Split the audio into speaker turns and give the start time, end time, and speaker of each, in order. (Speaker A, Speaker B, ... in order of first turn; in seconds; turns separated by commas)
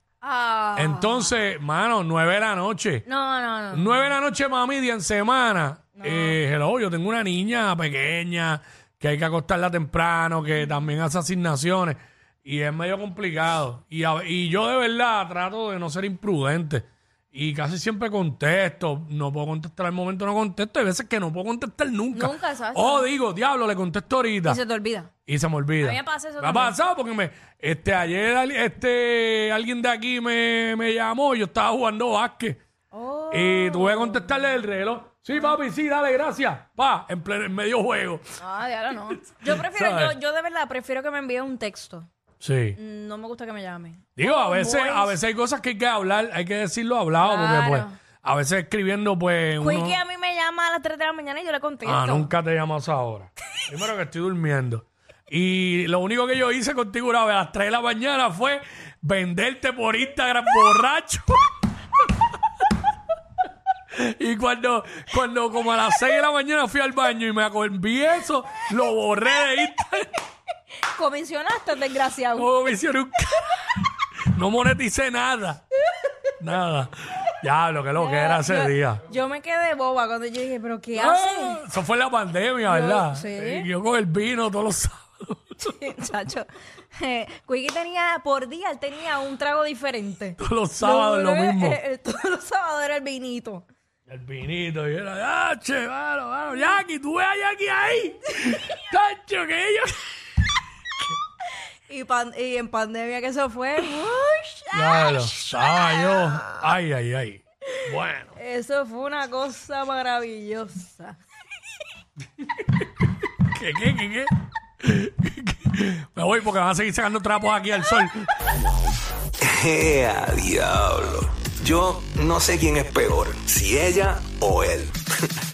Speaker A: 0.2-1.3, Speaker B: 0.8-3.0, Speaker A: 3.0-4.1, Speaker B: 3.7-24.6, Speaker A: 6.0-6.4, Speaker A: 22.1-23.1, Speaker A: 24.4-25.1, Speaker B: 25.2-32.6, Speaker A: 25.8-26.8, Speaker A: 32.9-34.3, Speaker B: 33.3-38.2, Speaker A: 38.4-42.1, Speaker B: 39.3-40.1, Speaker B: 42.4-42.8, Speaker A: 42.8-45.1, Speaker B: 44.2-50.0, Speaker A: 47.2-47.9, Speaker A: 49.6-52.3, Speaker B: 51.8-61.4, Speaker B: 63.9-70.1, Speaker A: 70.9-72.5, Speaker B: 72.3-75.6, Speaker B: 76.4-79.0, Speaker A: 78.0-81.6, Speaker B: 80.9-85.7, Speaker A: 82.7-83.7, Speaker A: 85.6-93.6, Speaker B: 90.4-91.8, Speaker B: 94.1-100.4, Speaker A: 101.9-106.6, Speaker B: 104.7-108.4, Speaker A: 108.3-111.2, Speaker B: 113.3-118.2, Speaker C: 119.4-125.0